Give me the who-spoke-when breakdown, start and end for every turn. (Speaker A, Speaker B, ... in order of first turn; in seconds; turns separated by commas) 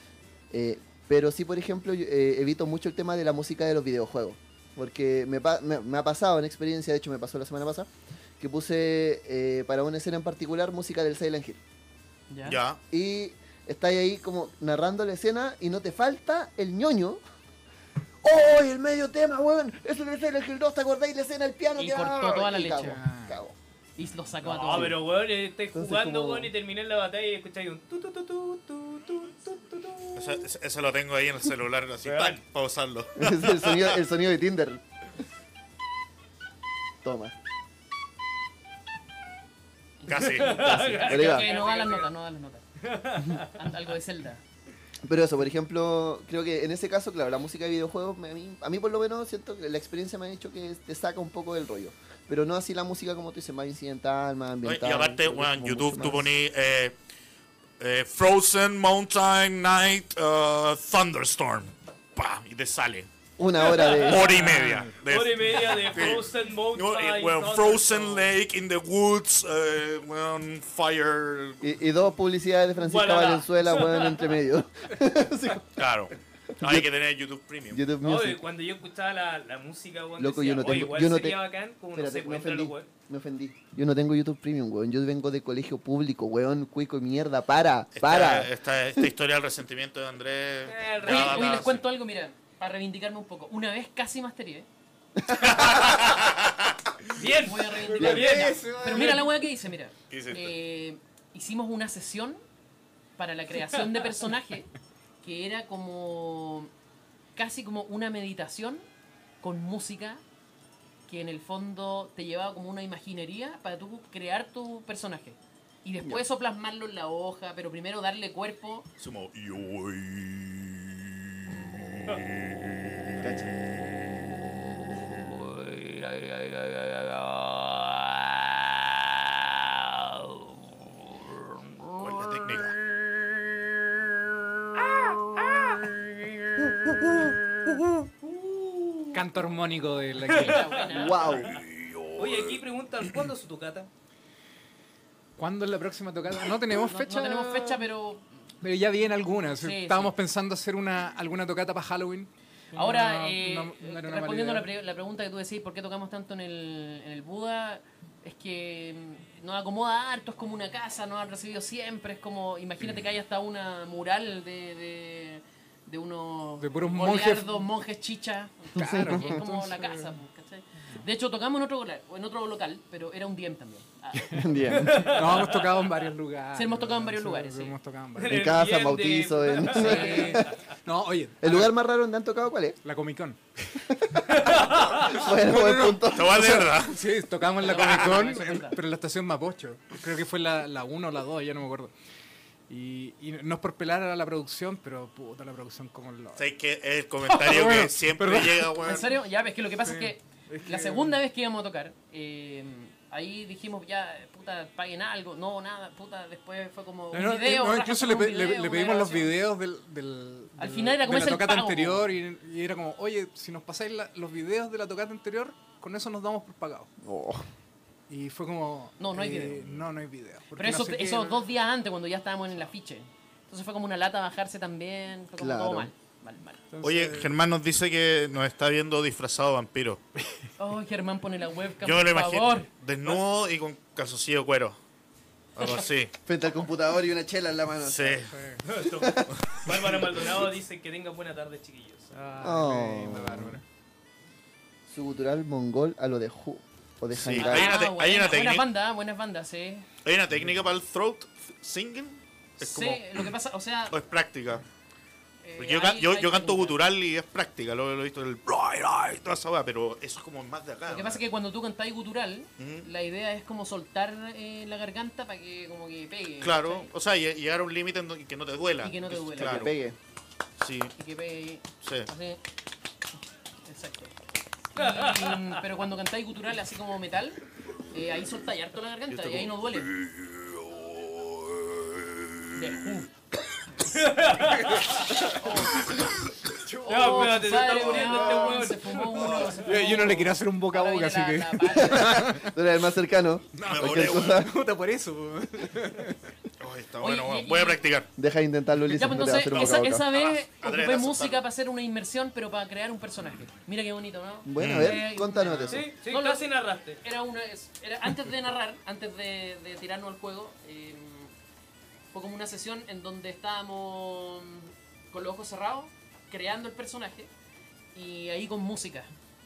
Speaker A: 0.5-7.9, Speaker A: 8.4-11.6, Speaker B: 12.3-12.6, Speaker C: 12.4-12.8, Speaker A: 12.9-17.2, Speaker A: 18.2-23.6, Speaker B: 21.8-23.0, Speaker D: 22.8-23.4, Speaker B: 24.0-25.0, Speaker E: 24.4-30.3, Speaker A: 24.7-25.0, Speaker A: 25.7-26.5, Speaker C: 30.1-33.8, Speaker E: 32.0-32.4, Speaker A: 33.2-34.8, Speaker A: 37.0-37.4, Speaker B: 40.0-42.6, Speaker C: 40.1-40.6, Speaker E: 40.2-42.1, Speaker A: 40.9-41.5, Speaker E: 42.8-43.5, Speaker B: 43.3-44.4, Speaker A: 45.0-56.3, Speaker C: 54.6-57.0, Speaker C: 57.8-63.1, Speaker A: 63.4-64.4, Speaker C: 63.6-71.7, Speaker D: 64.3-64.9, Speaker E: 65.0-68.3, Speaker A: 71.6-75.8, Speaker E: 72.8-74.3, Speaker C: 75.8-77.8, Speaker A: 76.5-76.9, Speaker A: 77.7-78.4, Speaker E: 78.0-82.9, Speaker A: 80.2-81.4, Speaker A: 82.0-89.1, Speaker C: 88.0-91.8, Speaker E: 90.7-91.7, Speaker B: 91.0-94.7, Speaker A: 95.3-95.7, Speaker C: 95.3-96.8, Speaker E: 95.7-96.0, Speaker E: 97.1-99.1, Speaker B: 97.4-102.4, Speaker D: 97.7-99.4, Speaker A: 98.0-98.3, Speaker C: 100.1-100.5, Speaker B: 103.2-104.7, Speaker B: 105.2-106.7, Speaker B: 107.3-108.8, Speaker B: 109.4-110.2, Speaker B: 111.1-118.9, Speaker C: 119.0-123.3, Speaker A: 123.2-123.5, Speaker B: 126.2-126.5, Speaker C: 132.0-132.8, Speaker E: 134.9-135.9, Speaker A: 136.6-137.2, Speaker E: 138.2-139.1, Speaker D: 139.1-140.8, Speaker E: 140.2-141.4, Speaker B: 140.3-141.5, Speaker A: 140.9-141.6, Speaker C: 141.4-142.6, Speaker E: 142.2-143.9, Speaker D: 145.4-147.9, Speaker B: 146.8-148.2, Speaker D: 148.6-154.7, Speaker B: 149.6-150.2, Speaker B: 152.8-174.9, Speaker D: 166.6-167.6, Speaker D: 168.8-170.2, Speaker A: 168.8-169.4, Speaker A: 174.3-175.1, Speaker E: 174.7-175.9, Speaker D: 175.0-178.5, Speaker B: 176.5-177.8, Speaker E: 178.2-180.7, Speaker A: 178.3-180.6, Speaker B: 179.7-180.4, Speaker D: 179.8-181.7, Speaker A: 181.4-182.8, Speaker D: 182.8-191.9, Speaker A: 183.9-186.8, Speaker E: 184.4-185.1, Speaker C: 186.1-187.1, Speaker B: 187.6-188.8, Speaker D: 192.7-196.5, Speaker C: 196.4-199.1, Speaker B: 197.3-197.5, Speaker D: 197.3-198.8, Speaker B: 198.8-209.3, Speaker D: 199.8-201.2, Speaker D: 207.1-216.9, Speaker B: 210.6-212.1, Speaker A: 217.0-217.5, Speaker D: 218.1-221.5, Speaker B: 219.0-219.6, Speaker B: 220.6-226.6, Speaker A: 225.4-225.9, Speaker D: 226.7-227.3, Speaker C: 226.8-230.0, Speaker B: 230.6-232.7, Speaker C: 231.8-234.8, Speaker C: 235.6-236.1, Speaker A: 236.3-238.2, Speaker C: 237.8-238.3, Speaker D: 238.3-238.6, Speaker E: 238.6-242.1, Speaker A: 239.0-240.0, Speaker D: 242.1-243.6, Speaker A: 242.4-243.6, Speaker A: 244.9-247.7, Speaker C: 247.1-248.7, Speaker B: 247.4-249.9, Speaker C: 250.0-253.3, Speaker B: 252.6-254.0, Speaker C: 253.9-254.7, Speaker B: 255.4-256.9, Speaker C: 255.6-261.2, Speaker B: 260.9-266.9, Speaker C: 262.6-262.9, Speaker C: 266.4-269.7, Speaker B: 268.8-269.7, Speaker A: 269.4-270.0, Speaker C: 270.6-270.9, Speaker B: 271.0-272.4, Speaker C: 271.8-272.1, Speaker B: 273.7-274.1, Speaker B: 274.7-279.9, Speaker E: 274.8-275.6, Speaker C: 279.1-282.4, Speaker B: 282.5-283.1, Speaker E: 283.9-285.0, Speaker D: 284.4-285.0, Speaker B: 284.9-286.1, Speaker D: 285.8-288.2, Speaker B: 286.9-292.4, Speaker E: 286.9-289.5, Speaker D: 289.3-292.5, Speaker A: 291.8-294.5, Speaker D: 293.6-296.3, Speaker C: 293.6-294.5, Speaker C: 296.6-298.1, Speaker B: 297.0-297.8, Speaker A: 298.2-300.1, Speaker B: 298.9-311.3, Speaker C: 299.5-301.4, Speaker A: 304.4-305.9, Speaker C: 304.6-305.0, Speaker E: 305.7-307.0, Speaker B: 312.1-317.3, Speaker B: 317.9-319.1